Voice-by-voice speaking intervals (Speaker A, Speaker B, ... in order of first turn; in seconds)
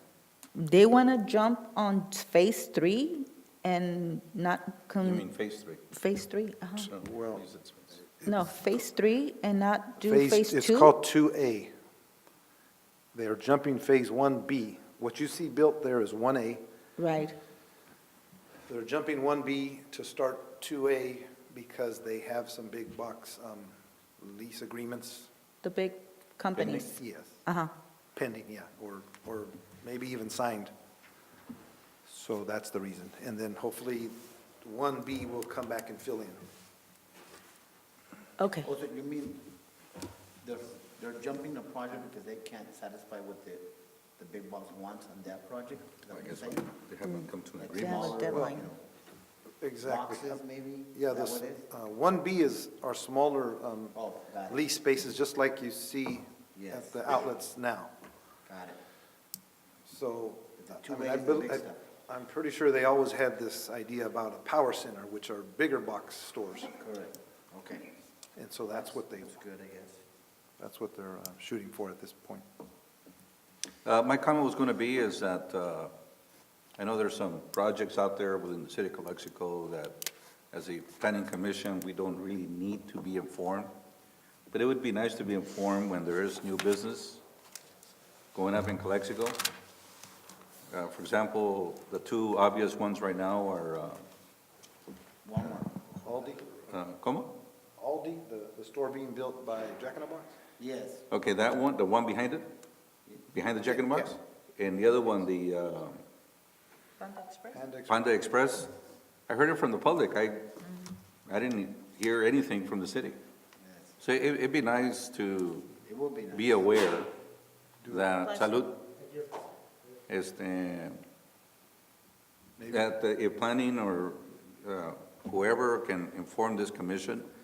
Speaker A: 0.6-5.3, 5.9-6.9, 8.2-11.0, 17.0-17.4, 25.6-26.9, 27.5-27.7, 38.4-38.7, 47.0-48.7, 107.0-107.6, 110.6-111.0, 118.2-118.7
Speaker B: 5.0-5.8, 6.8-8.0, 46.1-48.3, 73.8-75.9, 76.8-80.0, 80.5-83.7, 84.5-87.2, 88.3-89.4, 90.7-94.0, 96.7-97.3, 101.1-102.5, 103.3-106.0, 107.9-108.7, 109.3-110.5, 111.3-113.2, 114.0-115.7, 116.3-117.1, 117.9-118.8, 120.1-121.0, 122.7-127.3
Speaker C: 7.0-7.4, 10.0-11.7, 13.1-16.6, 18.7-25.3, 26.8-27.4, 28.1-30.7, 32.0-36.4, 48.3-48.6, 49.6-50.4, 50.9-54.0, 54.5-57.9, 59.9-66.7, 68.4-69.3, 70.6-72.5, 96.0-96.6, 97.8-100.3, 107.5-108.0, 117.8-118.1, 122.6-122.9
Speaker D: 38.6-39.5, 40.4-46.7, 47.6-48.8, 49.8-51.7, 53.9-54.7, 56.5-57.3, 58.5-58.8, 60.6-61.8, 66.7-68.0, 68.7-70.0, 95.2-96.0, 100.6-101.1, 103.1-103.9, 113.6-114.0, 115.8-116.7